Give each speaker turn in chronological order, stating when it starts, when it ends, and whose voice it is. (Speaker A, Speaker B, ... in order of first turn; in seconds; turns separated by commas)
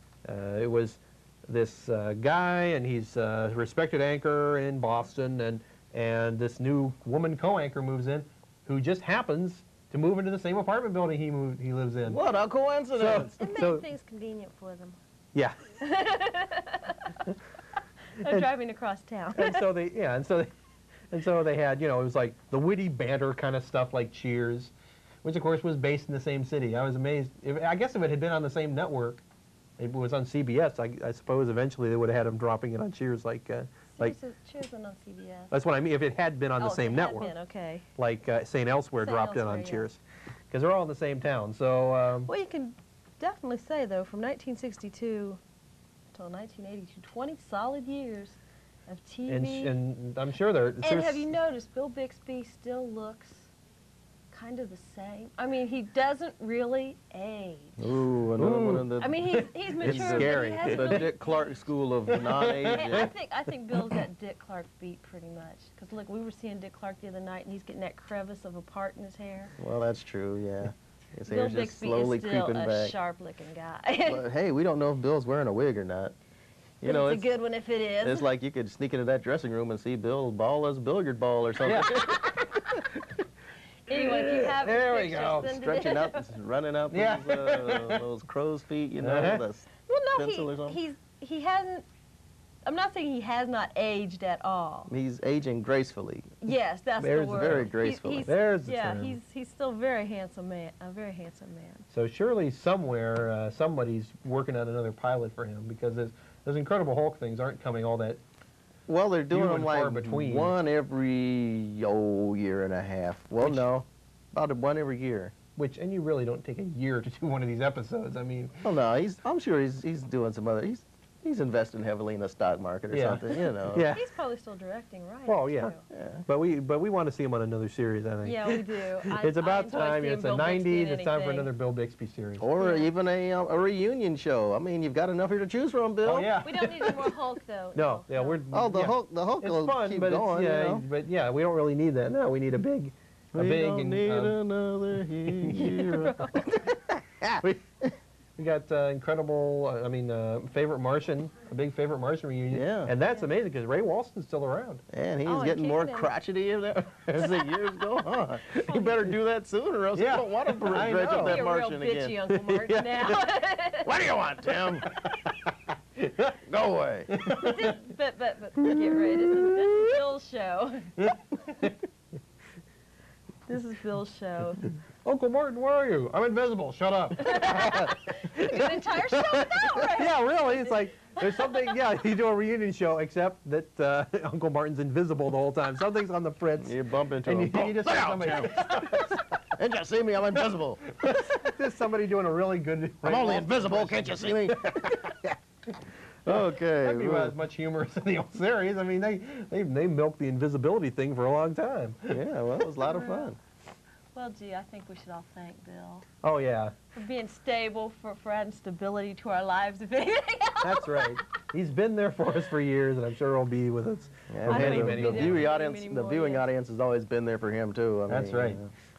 Speaker A: 0.2-12.2, Speaker B: 12.1-13.4, Speaker A: 12.9-13.8, Speaker C: 13.4-15.0, Speaker C: 15.8-17.0, Speaker C: 18.2-19.6, Speaker A: 19.4-20.5, Speaker A: 21.1-24.7, Speaker A: 25.2-29.2, Speaker A: 29.8-34.2, Speaker C: 33.9-35.5, Speaker A: 35.5-37.3, Speaker C: 36.6-37.9, Speaker A: 38.0-40.0, Speaker C: 39.0-39.9, Speaker A: 40.5-42.3, Speaker C: 42.3-45.4, Speaker C: 46.1-49.8, Speaker A: 49.3-51.3, Speaker C: 50.8-53.5, Speaker C: 54.3-57.8, Speaker B: 57.8-59.2, Speaker A: 58.4-61.1, Speaker C: 59.0-61.6, Speaker B: 59.8-63.1, Speaker A: 62.1-63.1, Speaker C: 62.6-69.5, Speaker B: 69.6-73.0, Speaker C: 71.3-74.3, Speaker B: 74.1-76.2, Speaker B: 76.8-77.3, Speaker C: 76.8-78.3, Speaker B: 78.0-82.8, Speaker A: 81.6-82.1, Speaker C: 83.9-86.3, Speaker A: 83.9-85.5, Speaker B: 85.4-90.8, Speaker A: 86.9-88.0, Speaker A: 89.0-89.4, Speaker C: 89.9-91.9, Speaker C: 92.7-94.9, Speaker B: 94.9-96.4, Speaker C: 96.4-101.8, Speaker A: 97.0-97.7, Speaker B: 97.1-98.3, Speaker A: 98.3-99.2, Speaker A: 101.9-108.2, Speaker B: 108.9-115.3, Speaker A: 109.3-110.5, Speaker A: 115.6-118.5, Speaker B: 118.6-123.9, Speaker A: 122.9-124.0, Speaker C: 123.4-125.8, Speaker A: 125.3-125.7, Speaker B: 125.9-126.2, Speaker A: 126.3-132.4, Speaker C: 128.2-131.5, Speaker B: 132.4-136.4, Speaker C: 132.6-132.9, Speaker A: 136.0-137.1, Speaker C: 136.4-138.4, Speaker A: 137.8-144.4, Speaker B: 138.5-140.8, Speaker B: 143.3-147.4, Speaker A: 145.4-145.8, Speaker C: 145.9-146.5, Speaker A: 148.4-154.8, Speaker B: 152.5-152.9, Speaker B: 154.9-162.2, Speaker C: 155.2-156.1, Speaker C: 158.5-159.1, Speaker A: 159.9-161.5, Speaker C: 161.1-163.9, Speaker A: 162.3-163.2, Speaker B: 163.8-164.9, Speaker A: 164.8-165.4, Speaker A: 166.0-166.3, Speaker B: 166.4-167.1, Speaker A: 167.1-167.8, Speaker C: 167.2-171.1, Speaker A: 168.6-170.0, Speaker A: 171.0-171.8, Speaker C: 173.5-174.7, Speaker A: 175.1-186.7, Speaker C: 177.2-181.8, Speaker B: 186.6-191.2, Speaker A: 187.3-189.2, Speaker C: 188.6-188.9, Speaker A: 191.0-195.2, Speaker B: 193.0-195.1, Speaker B: 196.3-197.3, Speaker A: 196.3-202.2, Speaker B: 202.1-203.4, Speaker C: 202.8-203.3, Speaker C: 204.2-206.1, Speaker A: 206.2-206.7, Speaker C: 206.9-211.2, Speaker A: 210.6-215.5, Speaker B: 214.3-218.7, Speaker C: 214.5-216.4, Speaker A: 218.1-218.6